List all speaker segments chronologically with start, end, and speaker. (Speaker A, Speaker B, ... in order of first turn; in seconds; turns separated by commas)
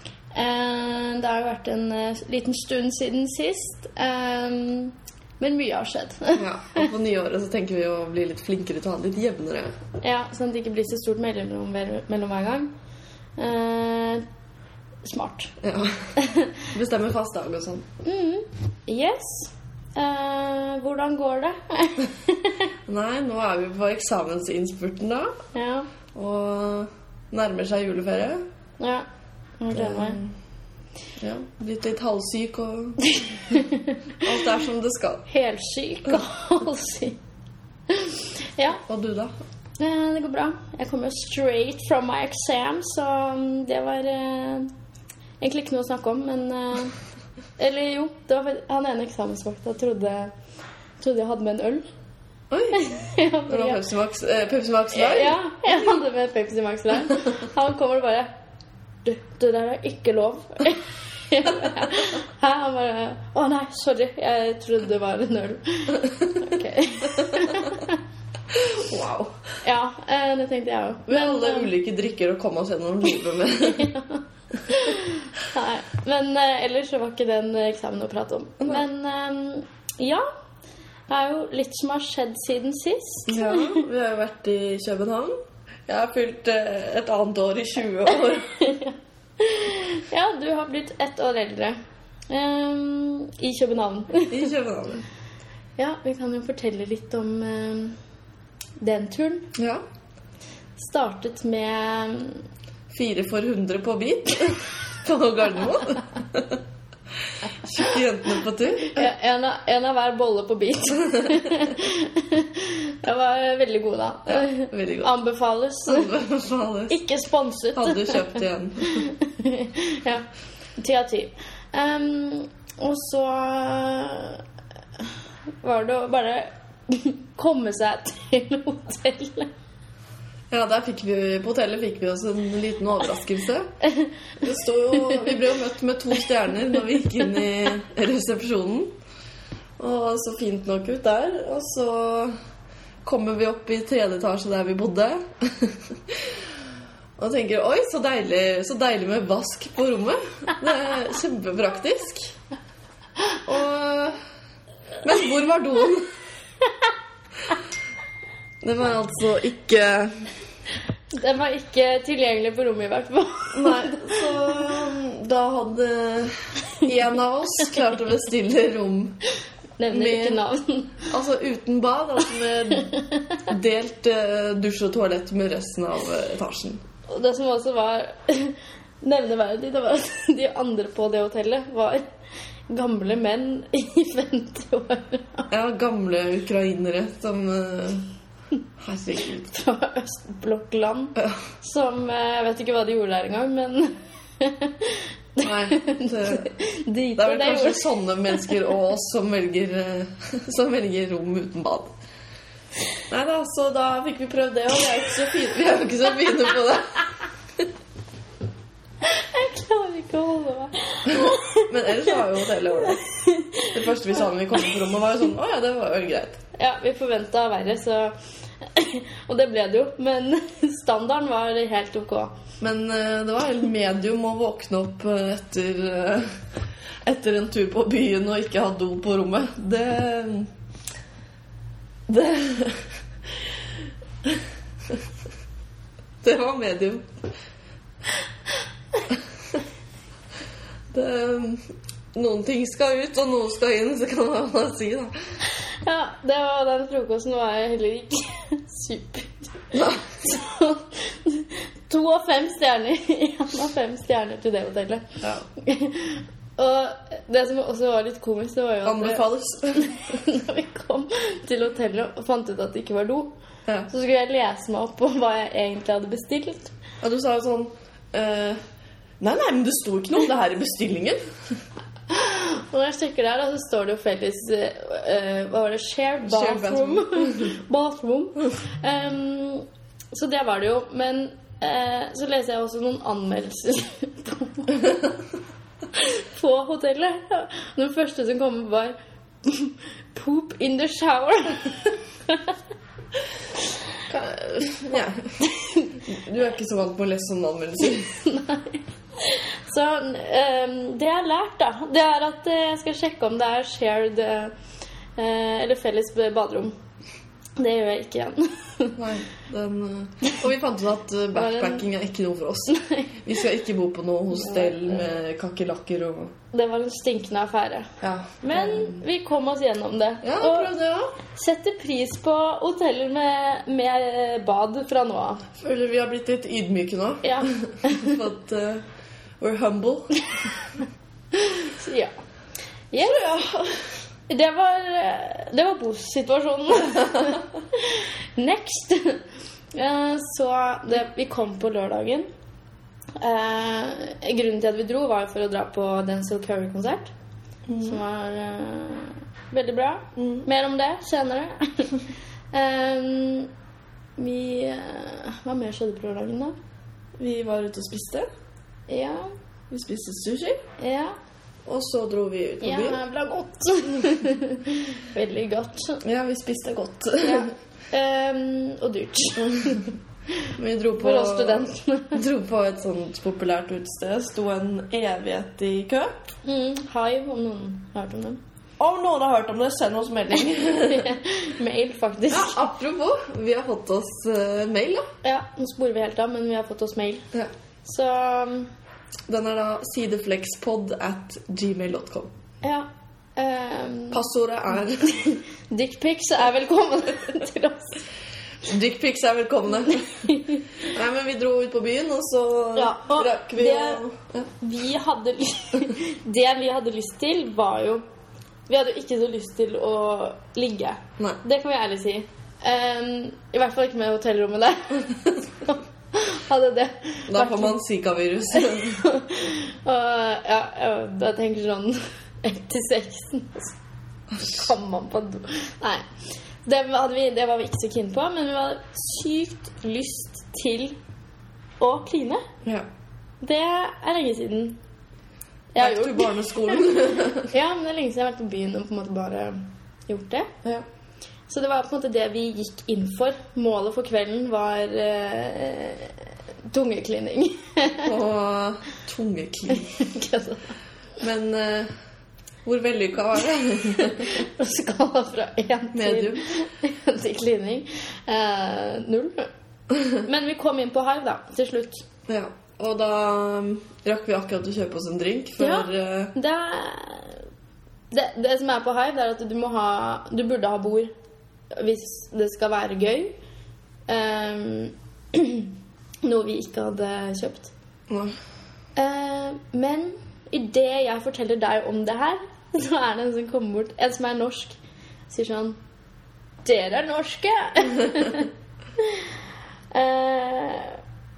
Speaker A: 0.3-6.9, Speaker B: 6.4-9.7, Speaker A: 10.0-12.7, Speaker A: 13.4-14.2, Speaker A: 15.0-15.5, Speaker B: 15.6-16.1, Speaker A: 16.2-16.7, Speaker B: 16.7-17.9, Speaker A: 18.0-22.7, Speaker B: 22.9-25.4, Speaker A: 25.5-25.9, Speaker B: 26.1-28.4, Speaker A: 28.8-29.1, Speaker A: 29.6-30.2, Speaker B: 29.7-30.4, Speaker B: 31.2-33.6, Speaker A: 33.5-34.0, Speaker B: 34.2-35.2, Speaker A: 35.3-37.2, Speaker A: 37.9-38.8, Speaker B: 38.8-39.3, Speaker A: 39.8-44.7, Speaker A: 45.4-47.0, Speaker A: 47.6-50.3, Speaker A: 51.0-51.9, Speaker B: 52.5-52.9, Speaker A: 52.7-53.8, Speaker B: 53.5-55.4, Speaker A: 54.9-58.3, Speaker A: 59.0-68.0, Speaker B: 67.3-67.6, Speaker B: 68.5-69.4, Speaker A: 69.6-71.7, Speaker B: 71.1-73.9, Speaker A: 73.6-80.2, Speaker A: 81.1-83.8, Speaker B: 83.3-85.3, Speaker B: 85.9-88.6, Speaker A: 88.6-91.8, Speaker A: 92.3-94.5, Speaker B: 94.3-95.0, Speaker A: 95.8-98.0, Speaker A: 98.8-99.5, Speaker B: 99.5-99.8, Speaker A: 100.8-102.4, Speaker B: 102.9-106.6, Speaker B: 107.4-109.1, Speaker A: 108.8-116.1, Speaker B: 114.3-115.1, Speaker B: 115.8-117.0, Speaker A: 116.9-120.2, Speaker B: 117.7-119.1, Speaker A: 120.8-124.4, Speaker A: 125.6-129.5, Speaker B: 130.5-133.7, Speaker B: 134.4-138.9, Speaker B: 139.8-142.3, Speaker B: 143.0-146.4, Speaker B: 147.2-152.3, Speaker B: 153.4-154.2, Speaker B: 155.0-156.1, Speaker B: 158.6-160.2, Speaker A: 161.1-164.5, Speaker B: 163.5-169.2, Speaker A: 169.8-171.1, Speaker B: 169.9-170.4, Speaker B: 171.1-172.9, Speaker A: 172.8-173.4, Speaker B: 173.5-176.8, Speaker A: 177.1-182.1, Speaker A: 182.7-185.5, Speaker B: 185.5-188.1, Speaker B: 188.8-189.5, Speaker A: 189.4-198.5, Speaker B: 195.4-196.5, Speaker B: 197.2-201.9, Speaker B: 203.1-207.0, Speaker A: 209.0-212.2, Speaker B: 211.1-213.0, Speaker A: 212.8-213.8, Speaker B: 213.7-216.4, Speaker A: 216.5-222.3, Speaker B: 222.6-226.3, Speaker B: 227.0-230.5, Speaker B: 232.1-232.9, Speaker B: 234.2-235.0, Speaker B: 236.2-237.1, Speaker B: 240.9-241.6, Speaker B: 242.1-245.1, Speaker A: 245.8-263.3, Speaker B: 249.7-250.2, Speaker B: 258.9-259.9, Speaker A: 263.9-266.7, Speaker B: 267.0-268.6, Speaker B: 269.2-271.2, Speaker A: 272.1-284.9, Speaker B: 276.2-277.5, Speaker A: 285.9-292.5, Speaker B: 294.1-295.4, Speaker A: 295.4-295.9, Speaker B: 296.1-298.2, Speaker A: 298.0-304.5, Speaker A: 305.2-306.8, Speaker A: 307.6-309.0, Speaker B: 309.0-316.3, Speaker A: 311.4-311.9, Speaker A: 312.7-313.2, Speaker A: 314.3-315.0, Speaker A: 316.5-320.7, Speaker B: 318.0-319.0, Speaker B: 320.2-321.1, Speaker A: 321.3-325.4, Speaker B: 325.6-328.8, Speaker A: 327.2-328.2, Speaker B: 329.4-330.1, Speaker A: 331.3-332.1, Speaker A: 332.9-333.2, Speaker B: 333.0-333.8, Speaker A: 334.3-339.2, Speaker A: 339.7-342.3, Speaker A: 343.2-347.1, Speaker B: 347.7-348.0, Speaker A: 347.8-352.0, Speaker B: 350.2-350.5, Speaker A: 352.5-353.5, Speaker A: 354.2-356.6, Speaker B: 357.2-358.3, Speaker A: 358.9-359.3, Speaker B: 359.7-360.6, Speaker A: 360.8-361.1, Speaker B: 361.7-363.0, Speaker A: 362.6-366.0, Speaker B: 366.0-367.5, Speaker A: 367.2-372.2, Speaker B: 370.6-376.1, Speaker A: 376.4-378.4, Speaker B: 378.8-381.1, Speaker A: 380.6-382.7, Speaker B: 382.3-385.1, Speaker A: 385.2-387.3, Speaker A: 387.8-388.7, Speaker B: 389.3-392.3, Speaker A: 392.6-394.2, Speaker B: 394.1-395.4, Speaker A: 395.0-398.1, Speaker B: 398.6-404.5, Speaker A: 400.2-400.6, Speaker A: 402.8-404.0, Speaker A: 404.6-408.0, Speaker A: 408.7-417.8, Speaker B: 417.3-419.0, Speaker A: 418.5-423.8, Speaker A: 424.4-426.1, Speaker A: 426.6-431.0, Speaker A: 431.8-432.5, Speaker A: 433.4-434.8, Speaker A: 435.7-440.5, Speaker B: 435.8-437.5, Speaker A: 441.5-448.1, Speaker B: 448.0-450.0, Speaker A: 449.7-450.8, Speaker B: 451.2-451.9, Speaker B: 452.6-454.4, Speaker A: 453.9-459.5, Speaker B: 455.9-456.5, Speaker A: 460.1-462.0, Speaker B: 462.3-466.3, Speaker A: 465.6-467.4, Speaker A: 468.1-471.1, Speaker A: 471.7-473.4, Speaker A: 474.1-475.7, Speaker A: 476.2-477.7, Speaker B: 478.1-478.3, Speaker A: 479.0-484.8, Speaker A: 485.3-485.8, Speaker A: 486.6-489.3, Speaker A: 489.9-491.0